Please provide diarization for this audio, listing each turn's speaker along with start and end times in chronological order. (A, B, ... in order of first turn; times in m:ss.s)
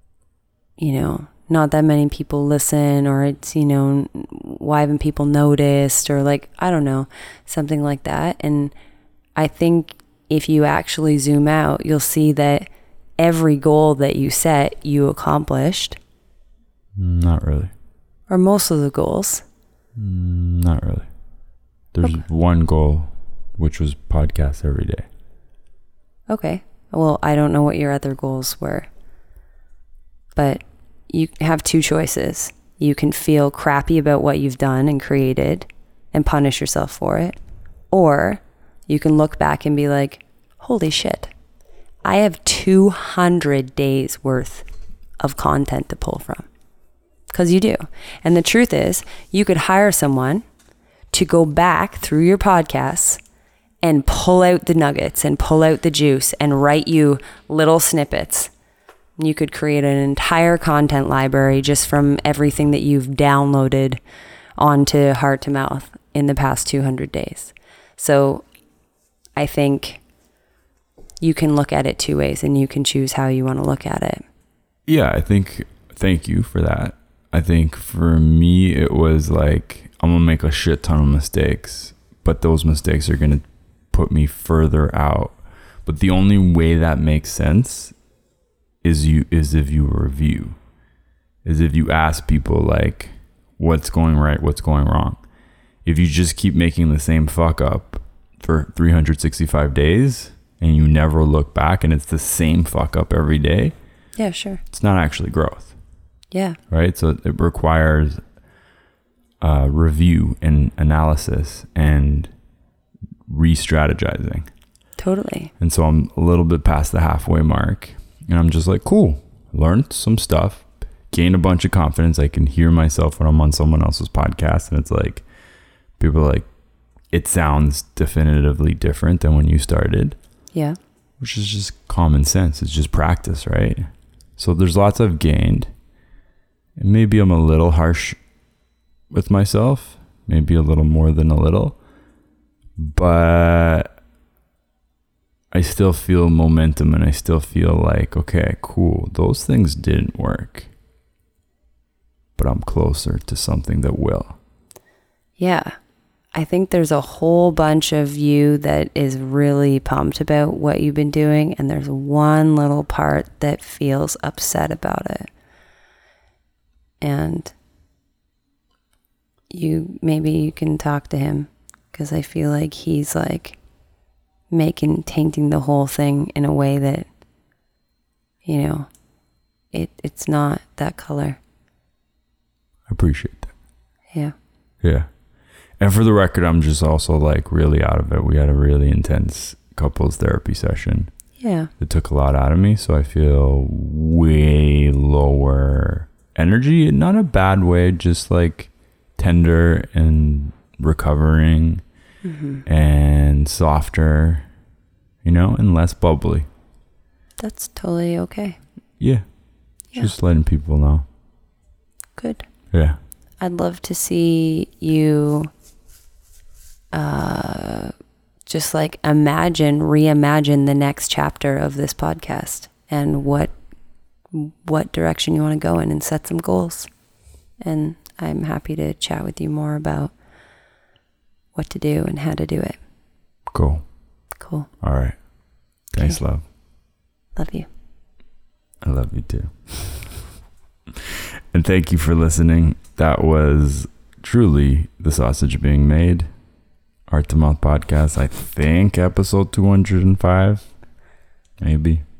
0:00.8-0:08.7 A
0:09.4-0:12.6 A
0:13.2-0:16.0 A
0:17.0-0:17.7 B
0:18.3-0:19.4 A
0:20.0-0:21.1 B
0:21.9-0:25.1 B
0:26.3-0:28.9 A
0:30.3-0:37.4 A
0:37.9-0:41.3 A
0:42.0-0:44.6 A
0:45.2-0:46.5 A
0:47.3-0:50.4 A
0:51.1-0:53.2 A
0:53.8-0:58.5 A
0:59.2-1:04.0 A
1:04.6-1:08.4 A
1:09.4-1:10.0 A
1:11.2-1:14.2 A
1:14.9-1:28.0 B
1:28.8-1:30.6 B
1:31.4-1:35.2 B
1:35.8-1:43.7 B
1:44.2-1:44.6 A
1:44.7-1:45.7 B
1:46.3-1:46.6 A
1:46.7-1:48.2 B
1:49.4-1:52.3 B
1:53.3-1:54.5 B
1:55.0-1:55.5 A
1:55.6-2:05.2 B
2:06.0-2:06.5 B
2:07.1-2:10.2 B
2:10.5-2:10.8 A
2:11.2-2:15.7 B
2:16.8-2:18.2 B
2:19.1-2:21.8 B
2:22.8-2:24.0 B
2:25.5-2:30.7 B
2:32.4-2:34.4 B
2:35.4-2:35.7 A
2:36.3-2:45.3 A
2:47.0-2:47.5 A
2:49.5-2:53.6 A
2:54.5-2:57.1 A
2:58.4-2:58.9 A
2:59.7-3:01.4 A
3:02.9-3:03.5 B
3:04.8-3:05.1 B
3:05.8-3:11.1 B
3:11.4-3:11.7 A
3:11.8-3:21.8 B
3:22.2-3:22.6 A
3:22.6-3:24.5 B
3:25.2-3:26.5 B
3:27.4-3:28.6 A
3:29.0-3:31.0 B
3:32.2-3:32.5 A
3:32.7-3:33.0 B
3:33.4-3:35.5 A
3:36.9-3:37.9 A
3:38.4-3:43.5 A
3:44.3-3:46.9 A
3:47.6-3:50.1 A
3:51.5-3:52.8 A
3:53.5-3:53.9 B
3:54.4-3:54.7 A
3:54.8-3:55.3 B
3:55.9-3:56.5 B
3:57.3-3:57.7 A
3:58.8-4:00.2 B
4:01.0-4:06.3 B
4:07.1-4:10.7 B
4:11.6-4:12.0 B